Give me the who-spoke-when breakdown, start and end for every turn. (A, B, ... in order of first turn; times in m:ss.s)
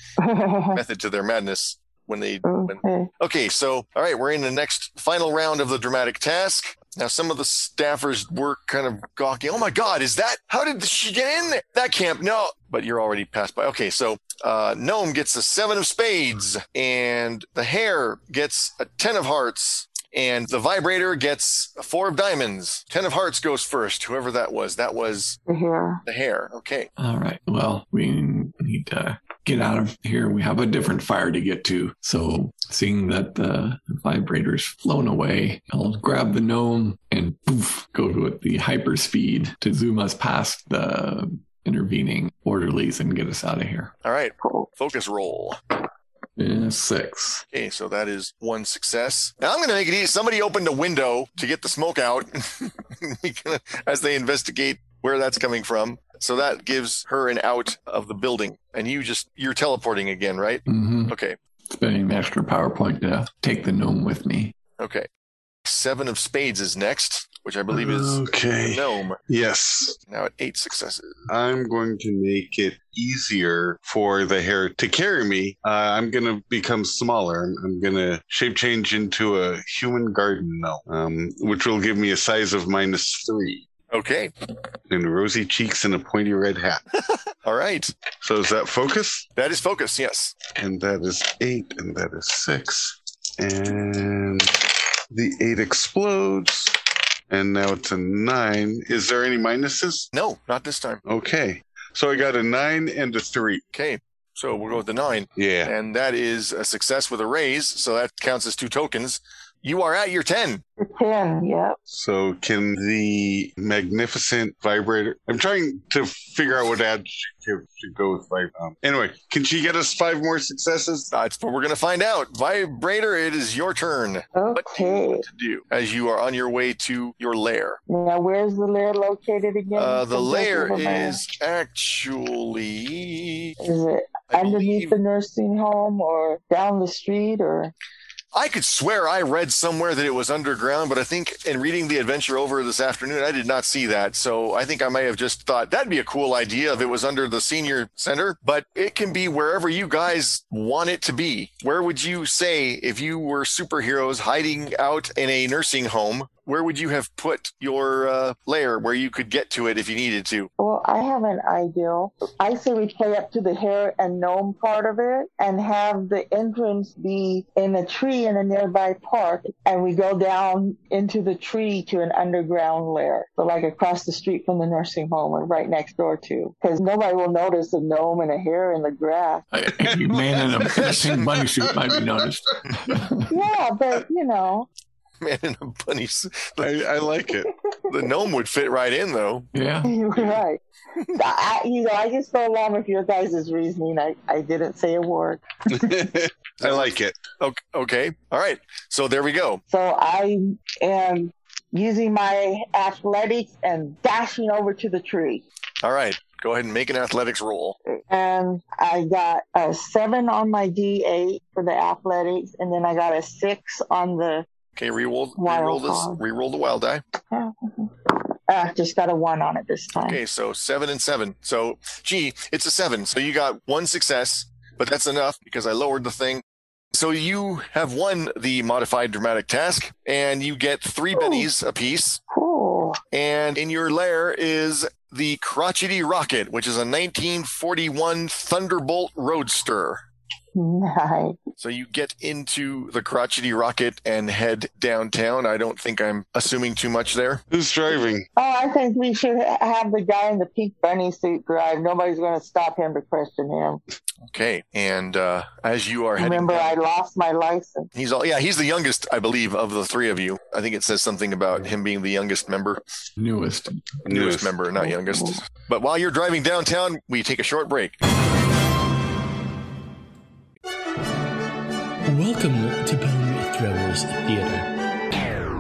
0:00.2-0:00.8 A
0:00.7-0:25.4 B
0:02.4-0:03.1 A
0:25.5-0:26.0 A
0:26.1-0:26.9 B
0:27.0-0:43.9 C
0:44.0-0:45.6 B
0:44.4-0:44.7 A
0:46.4-0:47.5 C
0:47.5-1:01.4 B
1:00.7-1:01.1 C
1:01.7-1:04.5 C
1:04.8-1:05.1 B
1:05.7-1:09.2 B
1:07.7-1:10.0 D
1:10.1-1:11.1 B
1:11.3-1:23.6 D
1:23.9-1:24.3 B
1:24.9-1:26.8 D
1:27.4-1:27.9 B
1:28.2-1:29.2 D
1:29.4-1:30.4 B
1:30.6-1:36.8 D
1:37.3-1:40.1 D
1:40.1-1:41.0 B
1:41.0-1:43.6 D
1:43.7-1:50.6 B
1:45.4-1:45.7 D
1:50.8-1:51.8 A
1:51.9-2:01.1 D
2:01.1-2:07.8 B
2:04.4-2:05.2 A
2:07.9-2:11.2 A
2:09.8-2:13.6 B
2:13.6-2:17.7 A
2:14.3-2:15.0 B
2:18.3-2:40.5 B
2:40.6-2:59.4 A
2:59.5-3:03.3 C
2:59.8-3:02.2 D
3:00.7-3:01.2 B
3:03.3-3:04.7 A
3:05.2-3:06.9 B
3:06.6-3:07.5 D
3:07.9-3:09.5 B
3:09.5-3:09.9 C
3:09.8-3:10.6 A
3:11.2-3:16.0 A
3:15.7-3:17.2 D
3:16.6-3:19.6 B
3:19.7-3:25.4 A
3:25.8-3:27.8 B
3:28.0-3:34.5 A
3:34.8-3:37.0 B
3:35.4-3:36.2 A
3:37.3-3:40.2 A
3:40.1-3:46.4 B
3:46.9-3:52.2 B
3:51.1-3:51.5 A
3:52.3-3:53.0 A
3:53.1-4:00.0 B
4:00.6-4:01.4 A
4:01.6-4:07.4 B
4:07.5-4:08.3 D
4:08.4-4:13.8 A
4:14.3-4:16.8 B
4:16.2-4:17.9 A
4:17.9-4:22.8 B
4:23.2-4:24.0 C
4:24.0-4:24.5 D
4:24.1-4:28.0 B
4:24.8-4:25.4 A
4:32.1-4:34.8 E